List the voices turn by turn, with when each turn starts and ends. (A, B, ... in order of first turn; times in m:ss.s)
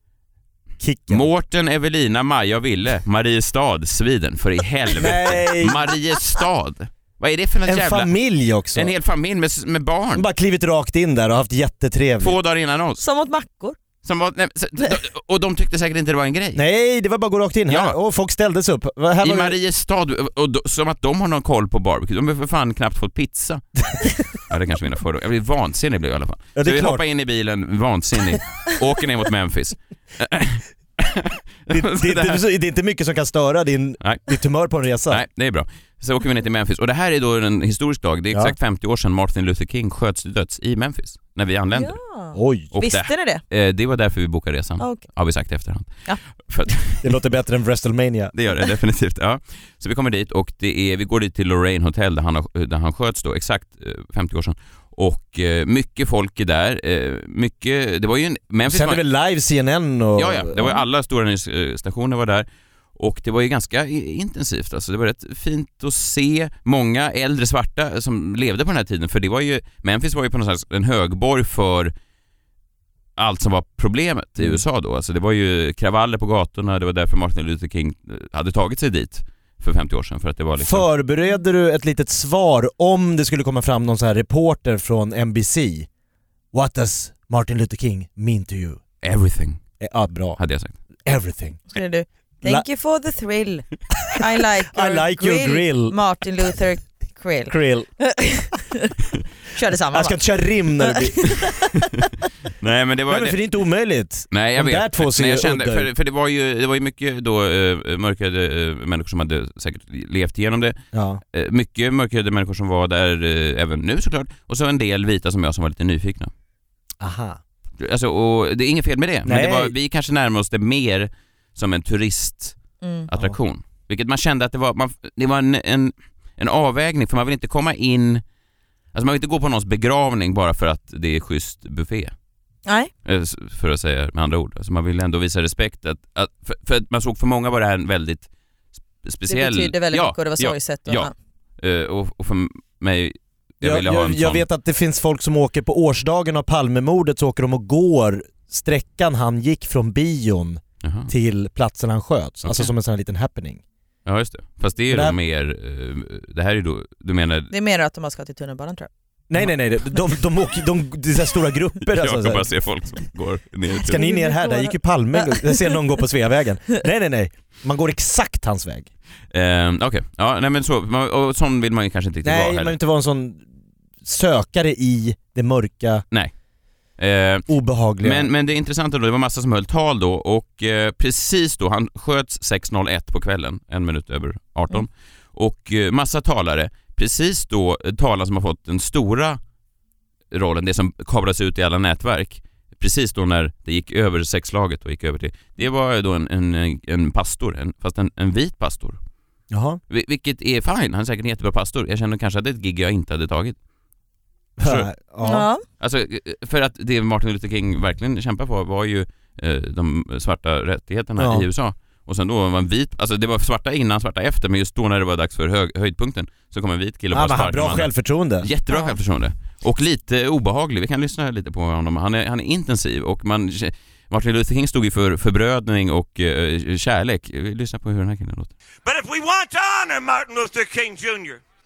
0:00.8-0:01.3 A
0:01.1-0:08.1 B
0:05.0-0:05.8 A
0:07.6-0:08.9 A
0:08.7-0:10.2 B
0:10.1-0:12.4 A
0:12.2-0:13.0 B
0:13.0-0:13.8 C
0:14.0-0:16.6 B
0:16.5-0:19.6 A
0:17.7-0:18.0 B
0:19.2-0:23.8 B
0:24.3-0:32.4 B
0:26.6-0:27.0 A
0:31.7-0:35.2 A
0:34.0-0:34.3 B
0:35.1-0:42.0 B
0:41.7-0:43.4 C
0:42.3-0:42.7 A
0:42.7-0:47.2 B
0:47.0-0:48.3 A
0:48.3-0:59.0 B
0:58.6-1:00.8 A
1:00.2-1:11.9 B
1:13.2-1:20.9 B
1:20.6-1:25.9 A
1:26.5-1:28.8 A
1:29.0-1:29.6 B
1:29.8-1:30.4 A
1:30.4-1:30.7 B
1:31.0-1:31.6 A
1:31.7-1:38.9 C
1:34.7-1:36.0 A
1:37.5-1:37.9 A
1:39.5-1:40.2 C
1:39.9-1:41.5 A
1:40.8-1:41.7 C
1:42.6-1:43.4 B
1:43.1-1:45.9 A
1:44.3-1:50.8 B
1:50.9-1:51.2 A
1:51.3-1:56.3 B
1:57.0-1:57.4 A
1:57.8-2:02.6 B
1:59.2-1:59.7 A
2:02.8-2:03.1 C
2:03.1-2:08.2 B
2:08.9-2:12.1 B
2:12.6-2:12.9 C
2:13.0-2:18.3 B
2:19.0-2:24.4 B
2:19.3-2:21.1 C
2:23.6-2:33.6 A
2:30.8-2:31.1 B
2:32.4-2:32.7 B
2:34.0-2:37.5 B
2:34.9-2:35.2 A
2:37.5-2:38.9 C
2:39.3-2:42.5 A
2:41.8-2:44.0 B
2:43.8-2:48.9 A
2:43.8-2:45.7 C
2:49.3-2:52.8 B
2:52.2-2:53.4 A
2:54.0-2:56.0 A
2:57.0-2:57.5 B
2:57.5-2:58.3 A
2:58.0-3:09.4 B
3:10.3-3:19.0 B
3:19.5-3:19.8 A
3:19.9-3:23.6 B
3:24.6-3:25.5 A
3:24.6-3:24.9 B
3:25.2-3:25.6 C
3:25.7-3:48.5 B
3:31.2-3:31.5 A
3:37.1-3:38.5 A
3:38.7-3:39.0 C
3:48.8-3:51.4 D